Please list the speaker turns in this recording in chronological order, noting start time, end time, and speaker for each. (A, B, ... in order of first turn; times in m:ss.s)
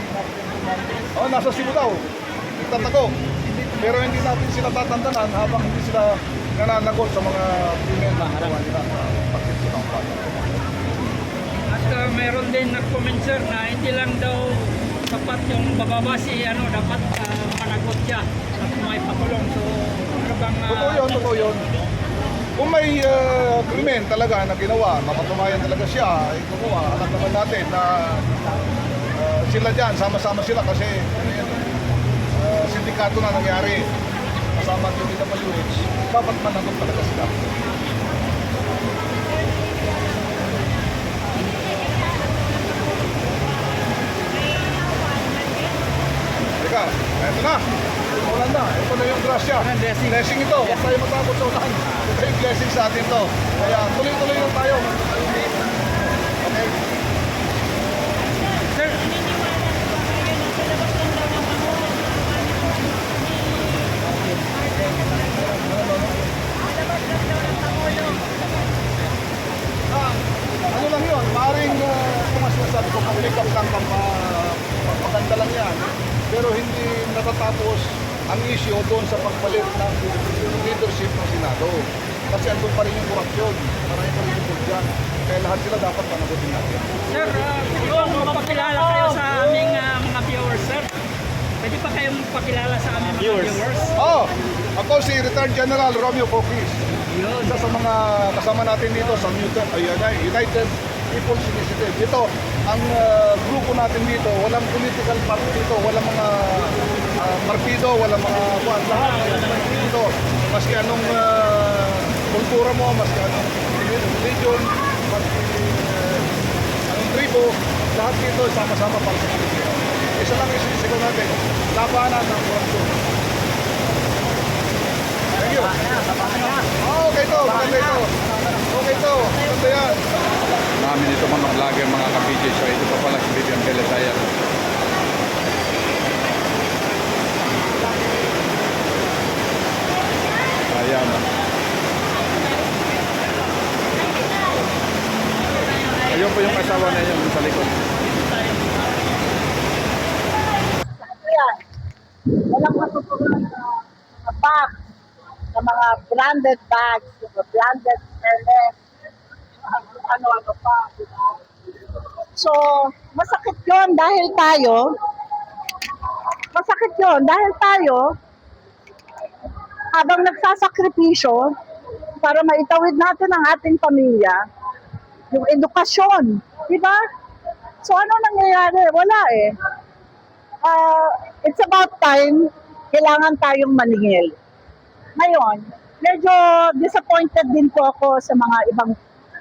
0:01.1-0:02.0 A
0:02.6-0:10.4 A
0:11.7-0:21.3 B
0:20.7-0:21.6 A
0:22.6-0:28.4 A
0:29.1-0:31.6 A
0:32.4-0:33.9 A
0:34.5-0:37.4 A
0:46.6-0:56.8 A
0:49.6-0:50.8 C
0:58.7-1:02.4 B
1:05.5-1:06.2 A
1:09.9-1:26.9 A
1:27.1-1:30.9 B
1:31.6-1:33.9 B
1:34.0-1:36.9 A
1:37.1-1:37.4 B
1:37.4-1:56.3 A
1:56.9-2:03.0 A
2:05.4-2:05.8 A
2:05.8-2:06.6 C
2:06.8-2:08.1 A
2:07.6-2:08.0 C
2:08.7-2:10.0 A
2:10.8-2:14.3 C
2:20.7-2:21.2 C
2:26.1-2:27.7 C
2:30.8-2:31.6 D
2:32.4-2:34.8 D
2:35.5-2:38.7 D
2:39.7-2:41.3 D
2:42.4-2:45.0 D
2:46.5-2:48.2 D
2:49.9-2:51.5 D
2:52.2-2:54.4 D
2:55.3-2:57.0 D
2:57.8-2:59.6 D
3:00.6-3:04.3 D
3:05.2-3:09.0 D